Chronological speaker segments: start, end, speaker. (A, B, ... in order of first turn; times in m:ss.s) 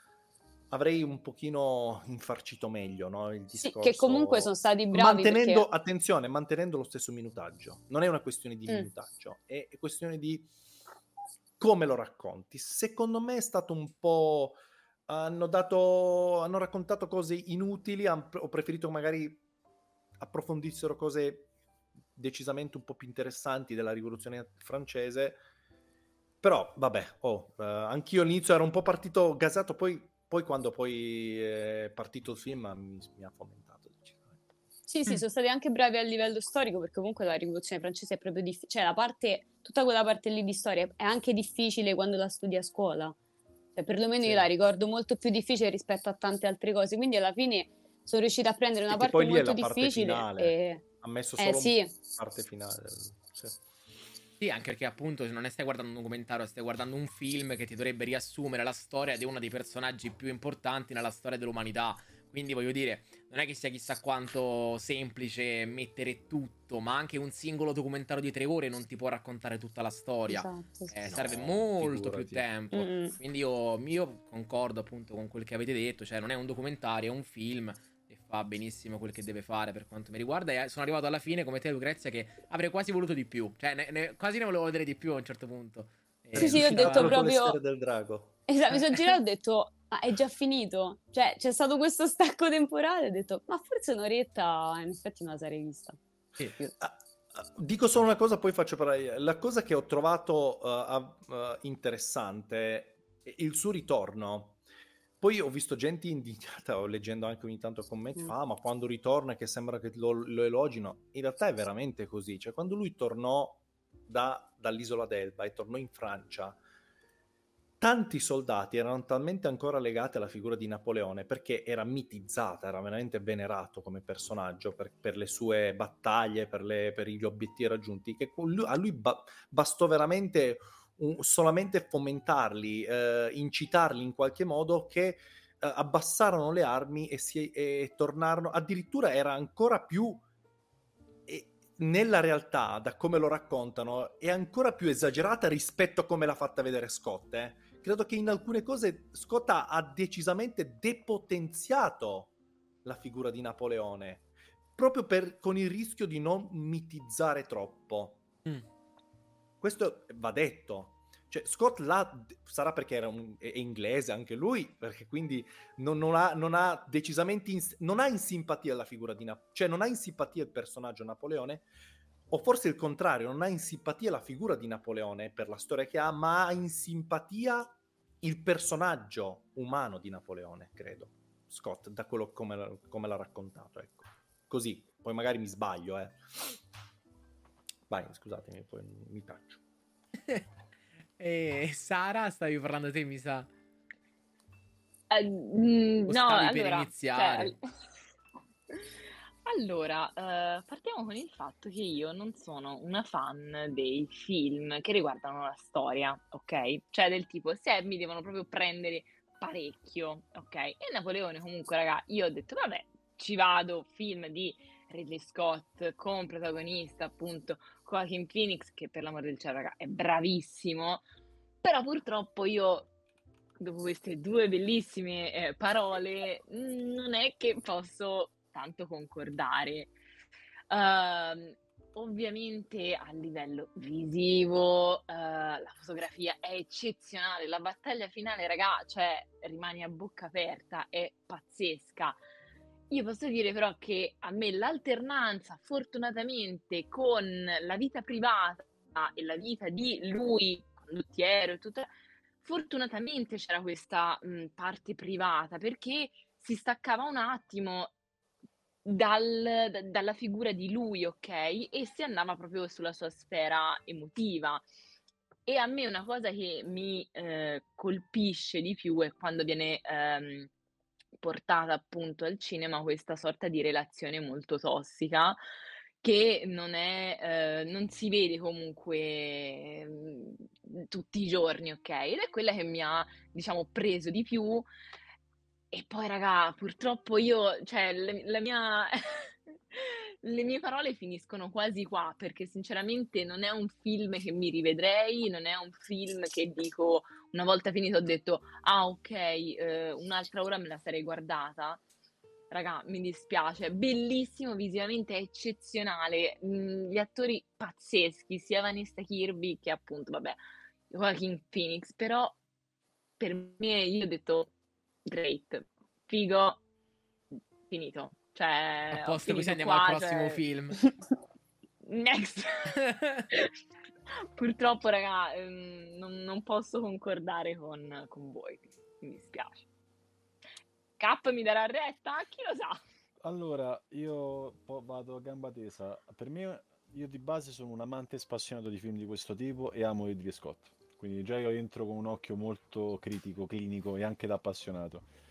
0:00.7-0:10.5 A
0:03.6-0:05.6 B
0:11.6-0:19.4 A
0:20.2-0:21.5 A
0:22.2-0:25.4 A
0:26.4-0:34.5 A
0:34.9-0:43.2 B
0:43.8-0:50.8 B
0:44.2-0:44.5 A
0:48.9-0:53.6 A
0:51.4-0:51.9 B
0:54.4-1:27.2 C
1:10.3-1:11.2 B
1:11.1-1:12.5 A
1:12.7-1:13.2 B
1:26.3-1:28.4 A
1:26.4-1:27.6 B
1:28.5-1:36.7 B
1:36.8-1:44.6 A
1:45.2-1:56.6 A
1:57.8-2:20.2 A
2:21.3-2:32.3 A
2:32.8-2:38.2 A
2:39.6-2:51.7 A
2:52.3-3:06.2 A
3:07.9-3:09.6 A
3:11.2-3:13.5 C
3:15.1-3:17.7 D
3:16.1-3:17.6 C
3:19.5-3:41.0 D
3:41.6-3:42.9 D
3:43.6-3:49.9 D
3:50.7-4:02.2 D
4:02.9-4:11.9 D
4:12.4-4:17.9 D
4:18.8-4:24.6 D
4:25.5-4:30.5 D
4:31.2-4:35.4 D
4:36.0-4:44.7 D
4:45.7-5:01.8 D
5:02.5-5:10.4 D
5:10.9-5:12.4 D
5:13.2-5:14.5 D
5:15.1-5:16.6 D
5:17.7-5:20.4 D
5:18.9-5:20.8 C
5:21.9-5:22.8 D
5:22.8-5:23.3 C
5:24.3-5:29.6 D
5:31.0-5:32.8 D
5:33.2-5:45.1 E